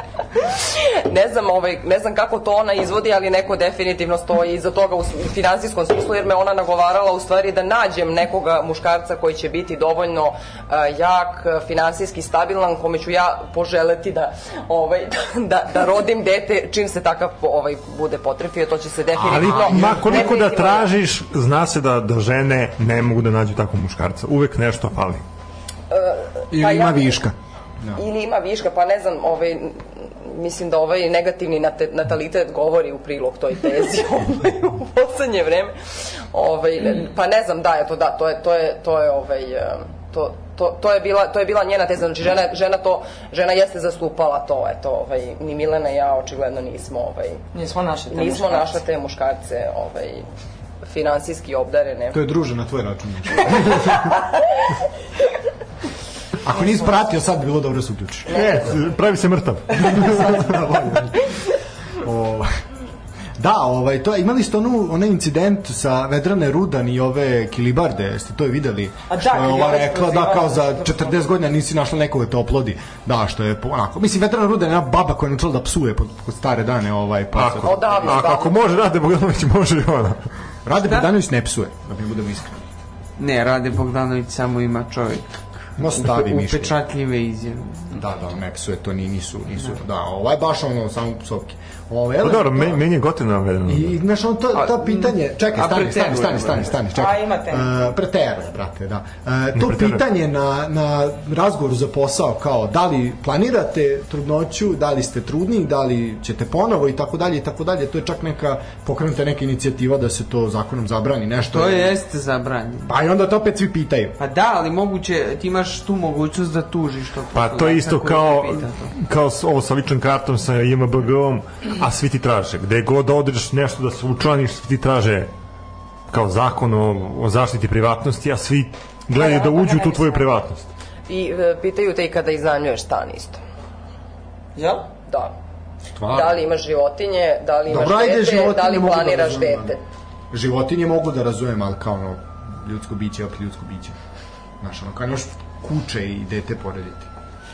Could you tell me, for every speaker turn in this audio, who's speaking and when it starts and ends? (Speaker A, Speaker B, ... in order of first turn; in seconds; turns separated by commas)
Speaker A: 0.8-20.9, Speaker B: 19.2-25.2, Speaker C: 19.3-20.1, Speaker A: 25.9-27.2, Speaker C: 26.5-28.0, Speaker A: 27.9-35.7, Speaker A: 36.3-47.4, Speaker D: 47.5-48.8, Speaker A: 48.1-50.2, Speaker A: 50.8-52.2, Speaker C: 52.1-54.1, Speaker C: 56.4-58.4, Speaker B: 58.3-60.5, Speaker C: 59.7-61.1, Speaker C: 62.0-62.5, Speaker C: 63.4-78.2, Speaker D: 69.1-71.2, Speaker B: 77.3-80.2, Speaker A: 77.6-78.6, Speaker C: 80.7-82.7, Speaker E: 80.8-81.1, Speaker E: 83.2-88.0, Speaker C: 85.8-86.7, Speaker C: 87.9-92.8, Speaker B: 92.2-94.0, Speaker C: 93.7-111.9, Speaker E: 94.5-96.7, Speaker D: 96.9-97.8, Speaker B: 99.5-100.0, Speaker E: 111.5-112.9, Speaker C: 112.9-114.2, Speaker E: 114.2-118.9, Speaker B: 117.3-125.3, Speaker B: 126.1-130.7, Speaker D: 129.1-130.2, Speaker A: 131.1-133.4, Speaker D: 134.6-134.9, Speaker A: 135.1-135.3, Speaker C: 135.9-136.4, Speaker A: 136.1-139.8, Speaker C: 137.7-139.7, Speaker C: 140.3-143.9, Speaker C: 144.6-147.1